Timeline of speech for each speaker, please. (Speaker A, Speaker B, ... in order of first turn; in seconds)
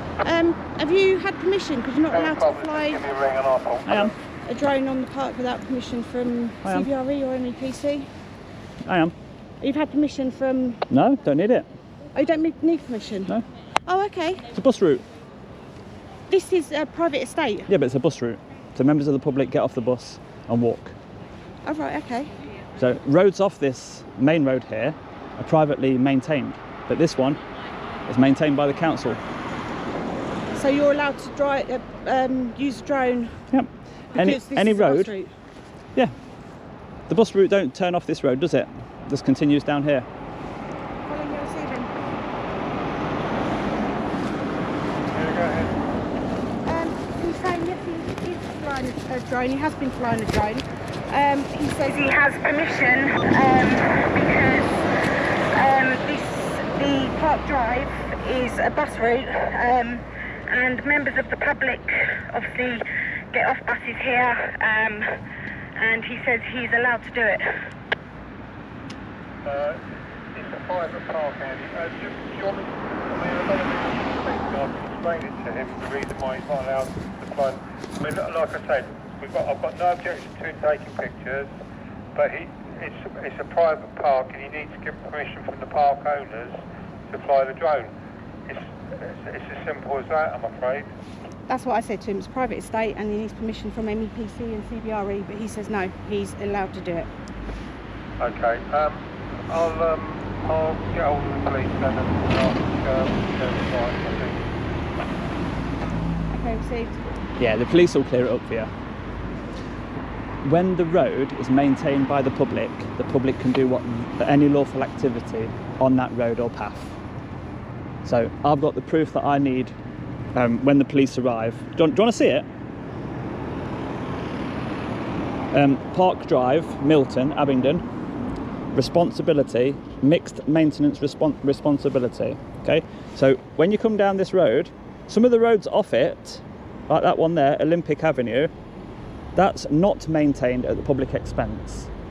Speaker A: 0.2-3.0, 4.5-8.1, 9.6-10.8, 12.1-13.3, 13.9-14.5, 16.3-17.7, 21.6-22.4, 30.5-33.4, 34.1-35.3, 41.0-41.9, 46.6-54.8, 55.5-65.1, 65.8-67.5, 91.5-97.1, 106.3-107.0
Speaker B: 2.1-4.1, 45.0-45.8, 69.5-69.8, 70.3-81.5, 82.2-87.9, 88.5-90.9, 98.2-104.5
Speaker C: 3.9-4.1, 8.8-9.2, 10.9-11.7, 14.5-15.1, 17.7-21.0, 22.8-27.4, 28.1-29.2, 33.5-35.1, 37.1-40.1, 107.4-108.7, 110.4-116.9, 118.0-119.8, 120.3-122.5, 125.5-127.8, 128.7-138.5, 139.3-141.9